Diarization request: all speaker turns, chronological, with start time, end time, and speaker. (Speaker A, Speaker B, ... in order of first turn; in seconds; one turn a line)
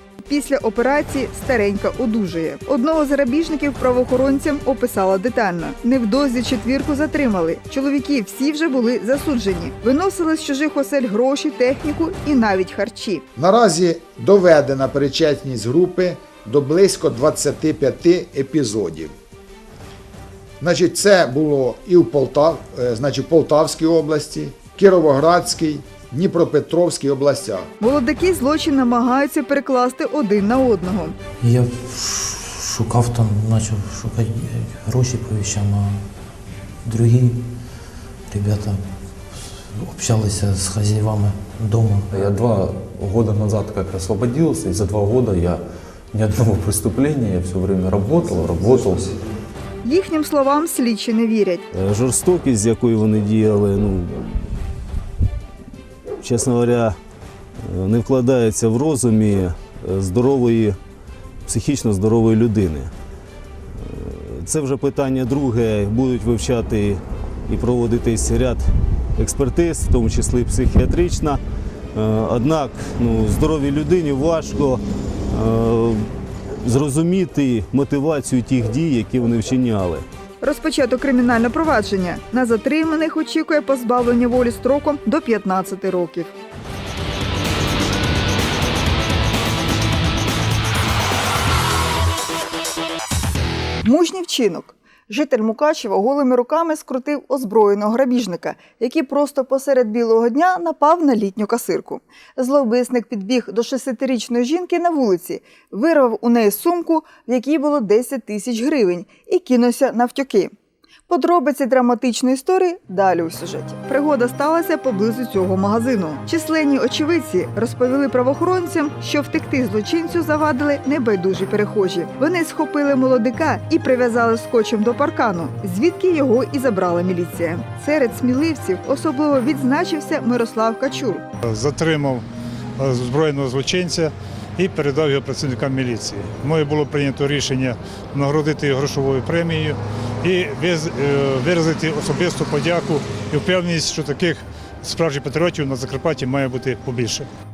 Speaker A: 0.3-13.2
Speaker B: 13.4-19.1
Speaker B: 20.6-27.7
Speaker A: 27.8-31.2
Speaker C: 31.4-36.0
Speaker C: 36.9-37.4
Speaker C: 38.3-38.8
Speaker C: 39.8-42.0
Speaker D: 42.1-45.6
Speaker D: 46.1-49.1
Speaker A: 49.8-51.6
Speaker E: 51.7-54.4
Speaker E: 56.2-57.0
Speaker E: 57.7-60.8
Speaker E: 61.5-62.9
Speaker E: 63.8-68.6
Speaker E: 69.2-71.4
Speaker E: 72.0-74.8
Speaker E: 75.3-76.0
Speaker E: 76.6-80.0
Speaker A: 80.4-86.3
Speaker A: 93.8-110.5
Speaker A: 111.1-131.2
Speaker F: 131.4-147.3